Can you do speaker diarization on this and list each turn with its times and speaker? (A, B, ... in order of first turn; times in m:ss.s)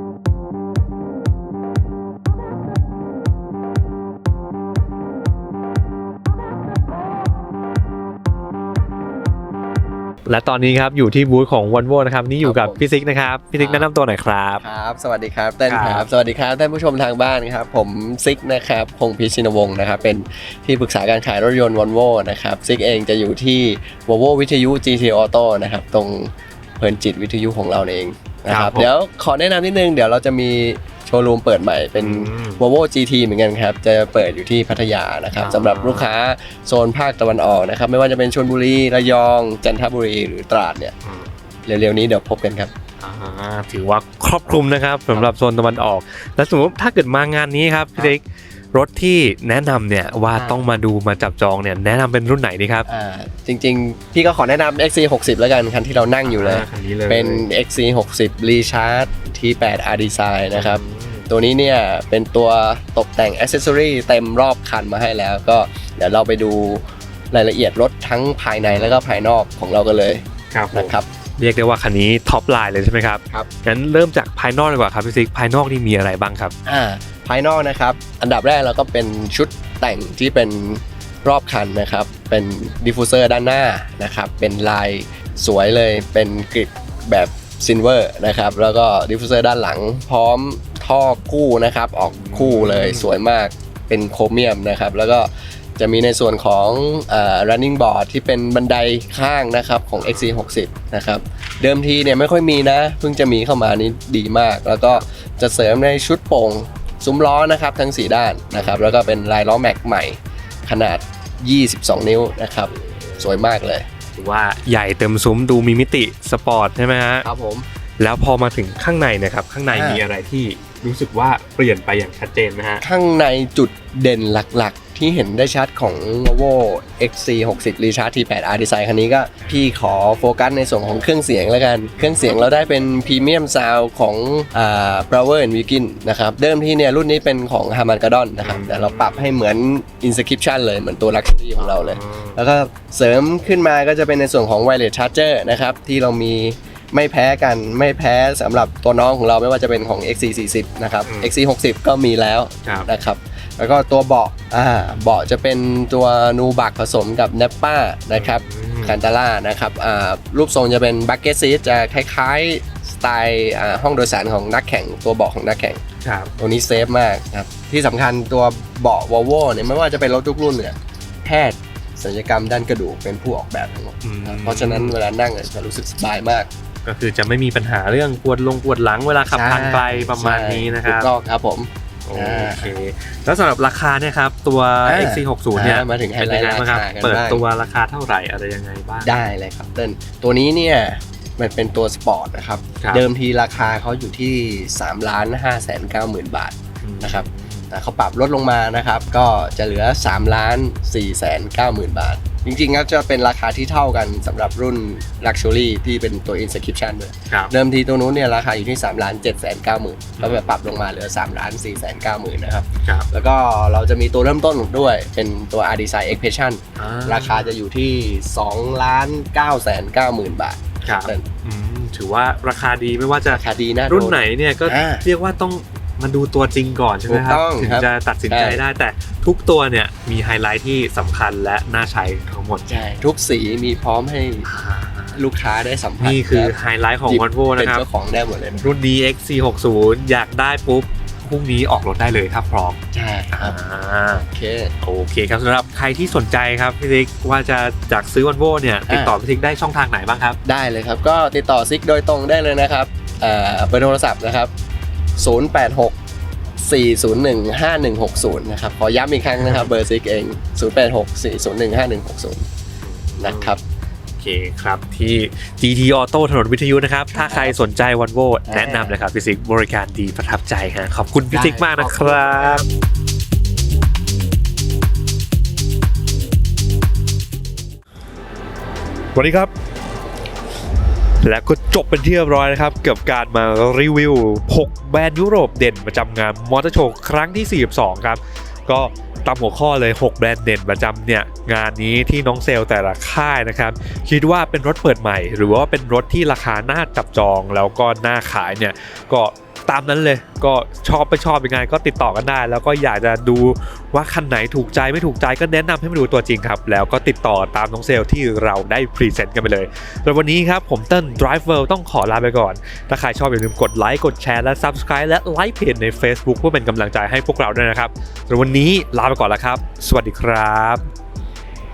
0:10.3-0:14.6 A
0:12.4-0:12.8 B
0:13.6-0:13.9 B
0:14.6-0:40.9 B
0:15.7-0:16.1 A
0:28.5-0:28.9 A
0:32.0-0:32.6 A
0:35.4-0:36.1 A
0:41.0-0:41.3 A
0:41.7-0:42.7 B
0:43.0-0:48.2 A
0:48.7-0:52.9 A
0:50.3-0:50.6 B
0:52.9-1:11.1 B
0:56.3-0:57.4 A
1:00.5-1:01.3 A
1:08.6-1:09.0 A
1:10.5-1:16.6 A
1:16.7-1:53.9 B
1:32.1-1:33.1 A
1:40.0-1:40.5 A
1:48.5-1:49.2 A
1:54.2-1:57.3 A
1:57.2-1:57.7 B
1:58.0-2:02.8 A
1:59.7-2:00.0 B
2:02.8-2:45.8 B
2:12.0-2:12.3 A
2:18.4-2:19.4 A
2:21.6-2:22.4 A
2:31.0-2:31.3 A
2:32.6-2:32.9 A
2:38.1-2:39.0 A
2:46.0-2:46.3 A
2:46.4-2:56.5 B
2:54.0-2:55.0 A
2:56.8-3:01.1 A
2:59.3-3:02.7 B
3:02.1-3:09.1 A
3:04.8-3:07.4 B
3:09.0-3:41.2 B
3:12.8-3:13.1 A
3:16.8-3:17.7 A
3:30.2-3:30.6 A
3:36.8-3:37.6 A
3:40.8-3:52.7 A
3:43.3-3:45.0 B
3:47.1-3:48.6 B
3:52.7-3:54.5 B
3:54.5-3:55.2 A
3:55.2-3:56.6 B
3:56.0-3:57.8 A
3:57.1-3:58.7 B
3:58.6-4:04.3 A
4:02.9-4:03.6 B
4:04.3-4:04.7 B
4:04.8-4:10.4 A
4:08.9-4:09.2 B
4:10.4-4:14.5 B
4:15.2-4:16.0 B
4:16.6-4:22.5 B
4:22.8-4:23.6 A
4:23.2-4:23.6 B
4:24.2-4:32.6 A
4:27.1-4:27.6 B
4:28.5-4:29.0 B
4:31.3-4:32.7 B
4:39.2-4:39.5 A
4:41.2-5:20.9 A